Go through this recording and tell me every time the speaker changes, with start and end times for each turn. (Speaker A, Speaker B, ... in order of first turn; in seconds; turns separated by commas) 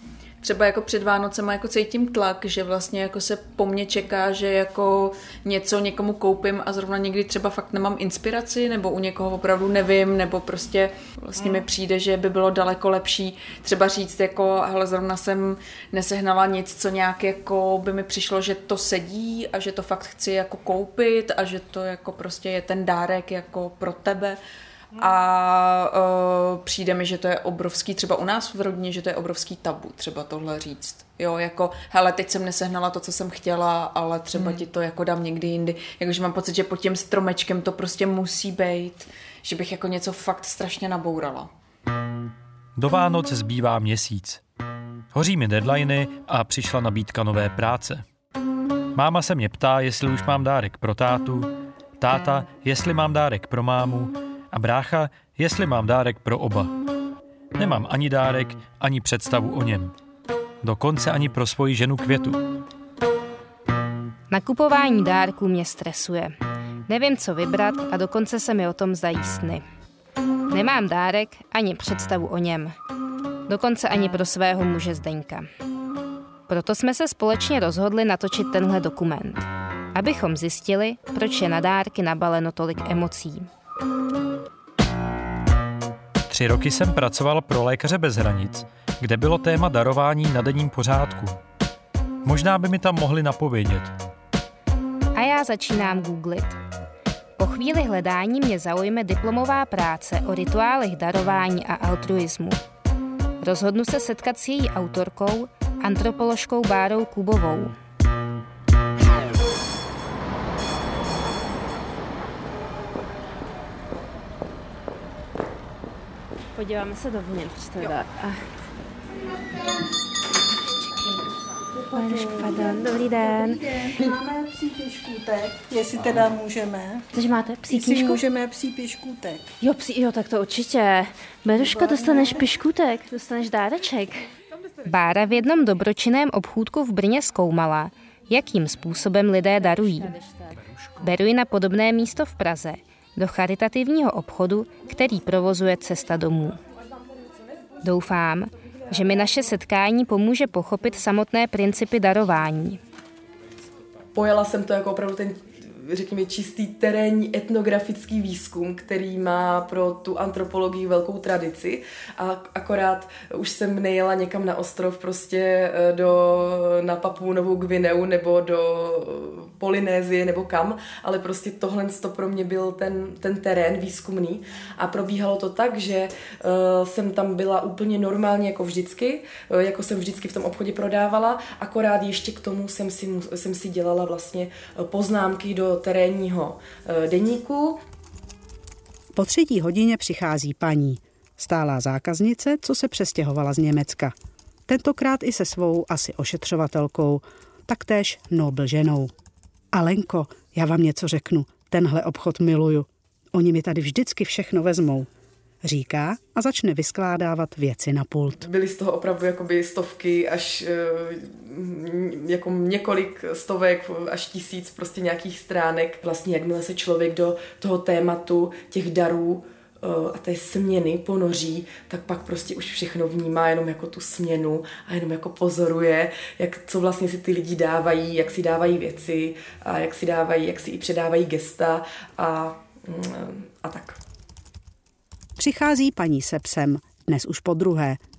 Speaker A: 0.4-24.4, Speaker A: 24.9-41.5, Speaker B: 42.8-44.4, Speaker B: 45.1-48.0, Speaker B: 48.9-56.7, Speaker B: 57.5-59.9, Speaker B: 60.6-62.4, Speaker C: 64.3-66.3, Speaker C: 66.9-69.6, Speaker C: 70.5-72.8, Speaker C: 73.5-75.5, Speaker C: 76.5-83.5, Speaker B: 86.3-91.4, Speaker B: 92.2-93.9, Speaker C: 95.1-96.6, Speaker C: 97.4-102.6, Speaker C: 103.4-107.7, Speaker C: 116.5-118.5, Speaker D: 121.7-127.0, Speaker C: 121.9-123.6, Speaker C: 127.1-128.2, Speaker D: 127.7-129.4, Speaker C: 129.6-134.2, Speaker D: 131.8-132.2, Speaker C: 134.9-140.2, Speaker C: 141.0-146.6, Speaker C: 147.8-152.8, Speaker E: 154.1-187.8, Speaker F: 189.2-194.1, Speaker F: 194.7-199.1, Speaker F: 199.7-205.1, Speaker F: 205.6-208.4, Speaker E: 208.4-234.0, Speaker F: 235.4-238.0